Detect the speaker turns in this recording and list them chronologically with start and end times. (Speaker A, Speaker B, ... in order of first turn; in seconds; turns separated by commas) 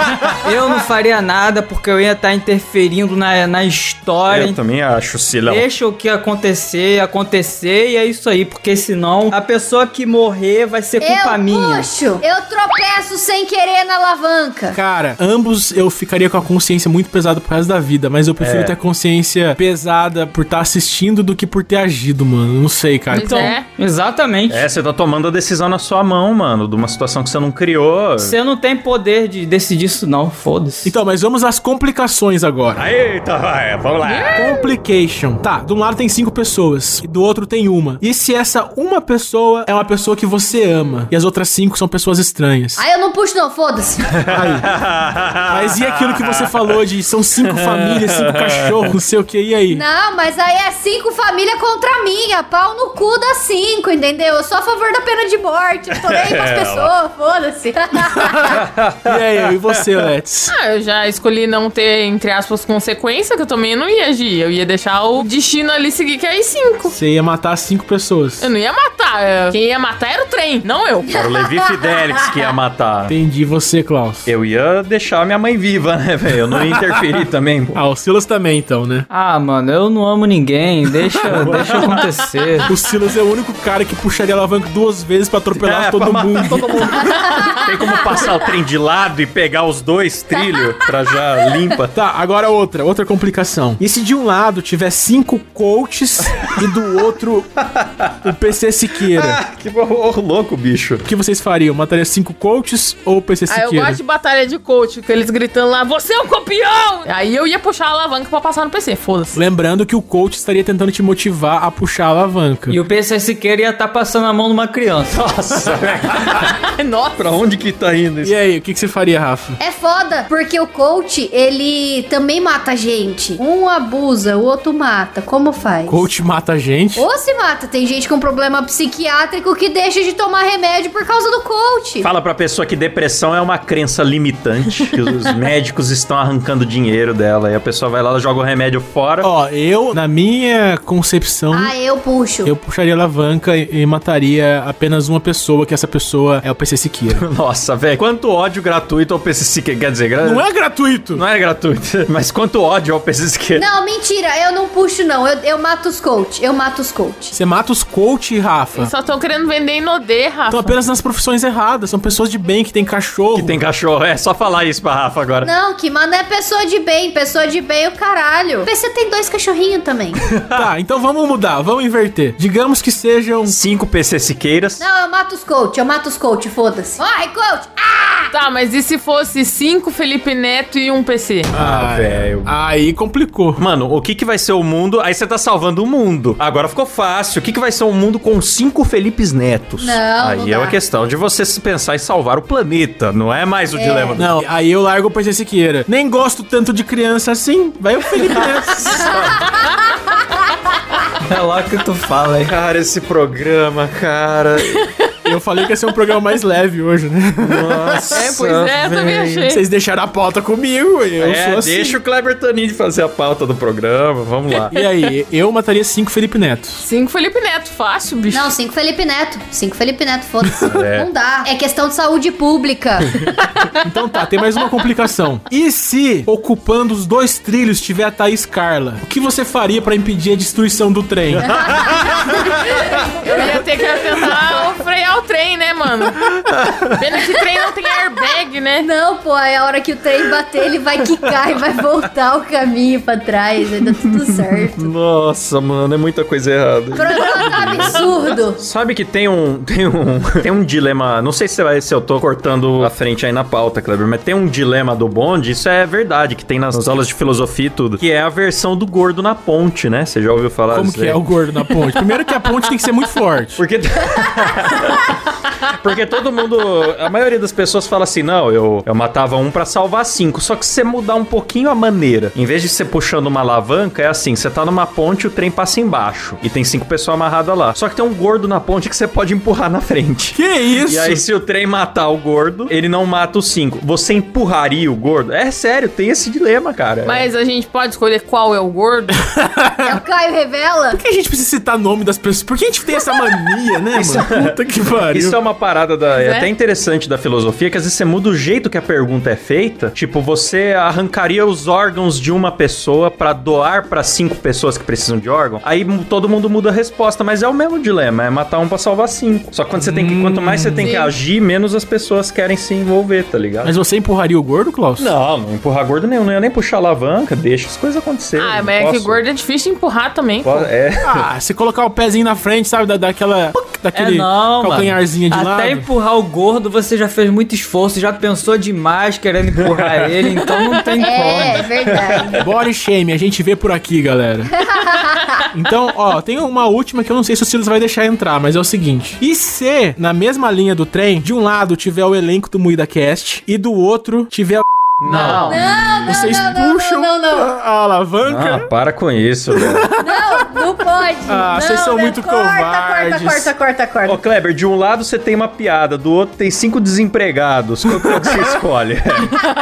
Speaker A: 0.4-4.6, Speaker B: 4.3-5.7, Speaker A: 5.5-11.9, Speaker C: 11.0-14.8, Speaker D: 14.7-23.6, Speaker B: 18.4-18.7, Speaker E: 23.1-23.7, Speaker A: 23.4-24.7, Speaker B: 24.5-28.4, Speaker A: 28.2-30.9, Speaker D: 30.8-32.8, Speaker B: 32.8-34.5, Speaker E: 34.0-34.7, Speaker D: 34.4-42.8, Speaker C: 42.8-44.2, Speaker B: 44.2-46.5, Speaker D: 44.3-44.7, Speaker D: 45.5-49.8, Speaker B: 47.5-49.0, Speaker C: 49.7-58.6, Speaker B: 56.1-56.9, Speaker D: 58.2-60.5, Speaker B: 58.4-59.2, Speaker E: 60.5-67.0, Speaker D: 66.9-68.5, Speaker E: 68.4-71.1, Speaker B: 71.1-73.1, Speaker D: 73.1-74.3, Speaker B: 74.3-77.8, Speaker D: 76.5-76.8, Speaker D: 77.7-79.1, Speaker A: 79.1-82.7, Speaker D: 81.2-82.0, Speaker B: 81.2-82.0, Speaker D: 82.7-87.6, Speaker B: 85.5-91.9, Speaker D: 91.9-97.5, Speaker B: 97.7-98.3, Speaker D: 98.2-99.4, Speaker B: 99.1-101.0, Speaker D: 101.0-104.0, Speaker E: 103.5-109.4, Speaker D: 109.3-112.8, Speaker A: 112.7-115.2, Speaker B: 115.1-116.5, Speaker E: 116.4-117.4, Speaker B: 117.2-118.3, Speaker D: 118.2-119.6, Speaker C: 119.6-126.1, Speaker D: 125.9-127.0, Speaker C: 127.0-132.1, Speaker B: 132.0-139.3, Speaker D: 139.2-141.8, Speaker C: 141.5-142.5, Speaker D: 142.4-147.2, Speaker B: 147.2-150.5, Speaker D: 150.2-151.2, Speaker B: 151.2-153.7, Speaker C: 153.6-157.4, Speaker D: 157.3-158.9, Speaker E: 158.8-160.8, Speaker D: 160.5-163.6, Speaker B: 163.3-165.5, Speaker C: 165.4-170.2, Speaker B: 170.3-170.7, Speaker D: 170.5-173.6, Speaker B: 173.4-174.8, Speaker C: 174.8-178.3, Speaker E: 178.3-181.5, Speaker D: 181.5-183.6, Speaker B: 181.5-182.5, Speaker B: 183.6-194.3, Speaker C: 189.8-190.8, Speaker C: 193.7-194.2, Speaker D: 194.2-199.2, Speaker B: 198.9-199.4, Speaker C: 199.0-199.6, Speaker A: 201.3-202.5, Speaker B: 202.4-204.9, Speaker D: 205.2-208.2, Speaker B: 207.4-209.4, Speaker E: 208.1-209.6, Speaker D: 209.4-212.0, Speaker B: 211.2-214.7, Speaker D: 214.7-216.8, Speaker E: 216.8-218.5, Speaker C: 218.3-223.1, Speaker B: 220.6-221.1, Speaker B: 223.1-223.3, Speaker D: 223.8-231.5, Speaker B: 231.4-232.9, Speaker C: 231.4-232.2, Speaker E: 232.2-236.2, Speaker C: 233.2-233.6, Speaker B: 236.2-237.0, Speaker E: 237.0-238.9, Speaker C: 238.8-244.9, Speaker B: 243.9-261.2, Speaker C: 246.9-248.6, Speaker D: 260.7-263.6, Speaker B: 263.6-287.3, Speaker D: 280.3-281.2, Speaker E: 287.0-289.2, Speaker D: 289.3-290.0, Speaker C: 289.8-291.0, Speaker D: 290.9-295.4, Speaker B: 293.9-294.6, Speaker B: 295.1-313.8, Speaker E: 296.1-296.5, Speaker D: 309.7-311.0, Speaker E: 310.8-311.1, Speaker D: 313.6-315.1, Speaker B: 315.0-319.2, Speaker E: 318.4-320.7, Speaker B: 320.4-321.2, Speaker D: 321.0-325.9, Speaker A: 323.9-331.7, Speaker B: 329.6-330.1, Speaker C: 331.0-332.4, Speaker B: 331.9-332.4, Speaker D: 332.4-334.7, Speaker C: 334.6-335.4, Speaker D: 335.5-345.4, Speaker B: 345.0-345.6, Speaker E: 345.1-345.6, Speaker C: 345.4-347.5, Speaker D: 346.0-348.7, Speaker B: 348.2-349.9, Speaker D: 349.5-350.5, Speaker C: 350.0-354.2, Speaker D: 351.3-353.5, Speaker B: 354.1-359.4, Speaker D: 357.9-358.5